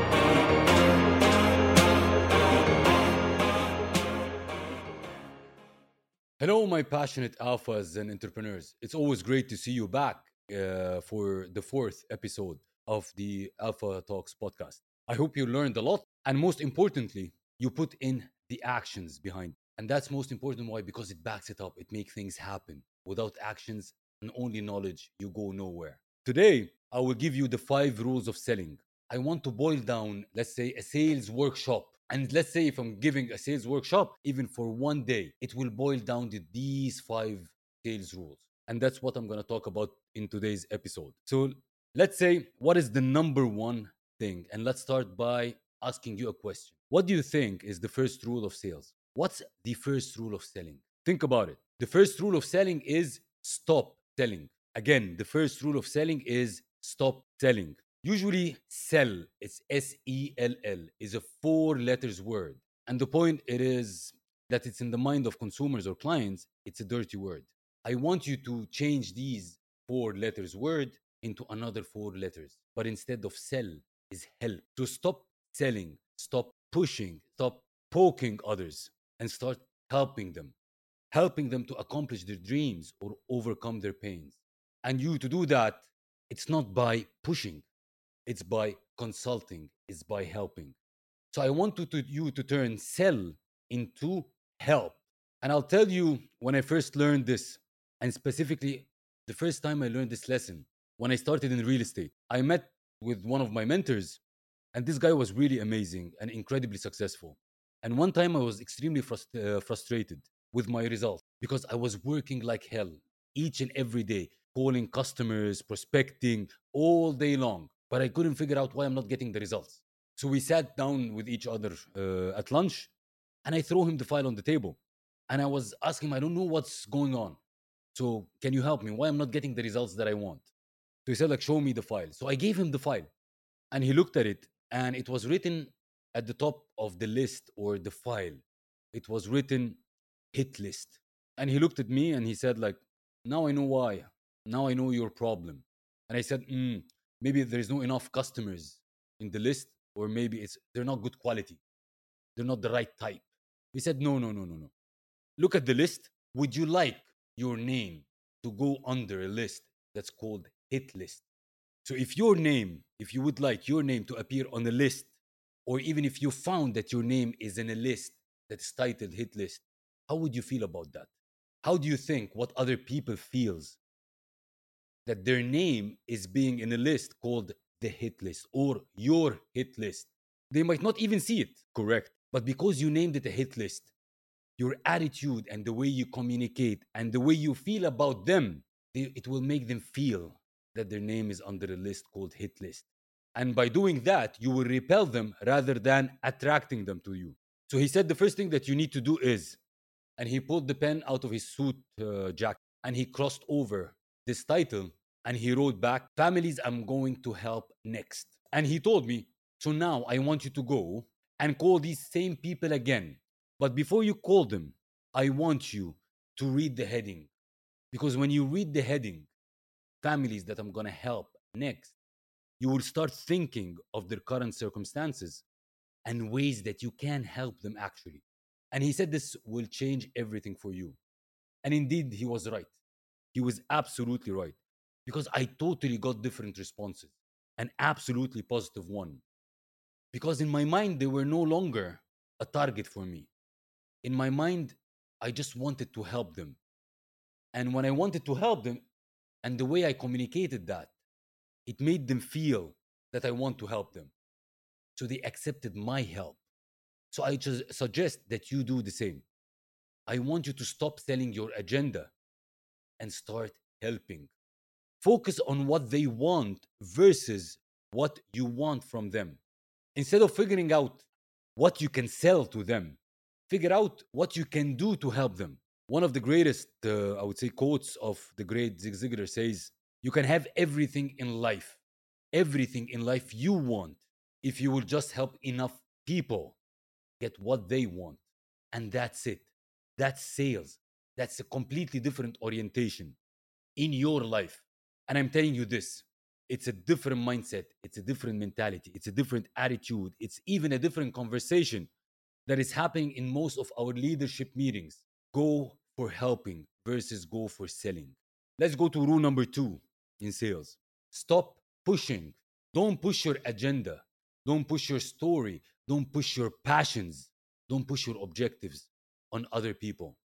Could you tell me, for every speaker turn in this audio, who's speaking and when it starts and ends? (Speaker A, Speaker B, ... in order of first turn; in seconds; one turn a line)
Speaker A: 6.4-80.5
Speaker A: 81.1-87.6
Speaker A: 88.2-90.8
Speaker A: 91.3-104.2
Speaker A: 104.7-122.9
Speaker A: 123.4-127.4
Speaker A: 127.9-130.5
Speaker A: 131.1-133.1
Speaker A: 133.7-138.4
Speaker A: 138.9-139.8
Speaker A: 140.3-151.6
Speaker A: 152.3-154.7
Speaker A: 155.4-161.2
Speaker A: 161.8-165.1
Speaker A: 165.7-171.1
Speaker A: 171.6-173.8
Speaker A: 175.1-183.9
Speaker A: 184.6-199.6
Speaker A: 200.2-217.3
Speaker A: 217.9-219.3
Speaker A: 220.0-221.9
Speaker A: 222.6-225.4
Speaker A: 226.0-231.0
Speaker A: 231.6-232.7
Speaker A: 233.3-239.2
Speaker A: 240.1-243.3
Speaker A: 244.0-246.6
Speaker A: 247.5-248.8
Speaker A: 249.4-250.9
Speaker A: 251.7-254.1
Speaker A: 254.9-256.4
Speaker A: 257.1-259.2
Speaker A: 260.1-262.1
Speaker A: 263.0-264.3
Speaker A: 265.0-269.4
Speaker A: 269.9-281.8
Speaker A: 282.3-286.6
Speaker A: 287.2-293.2
Speaker A: 293.8-301.9
Speaker A: 302.4-320.2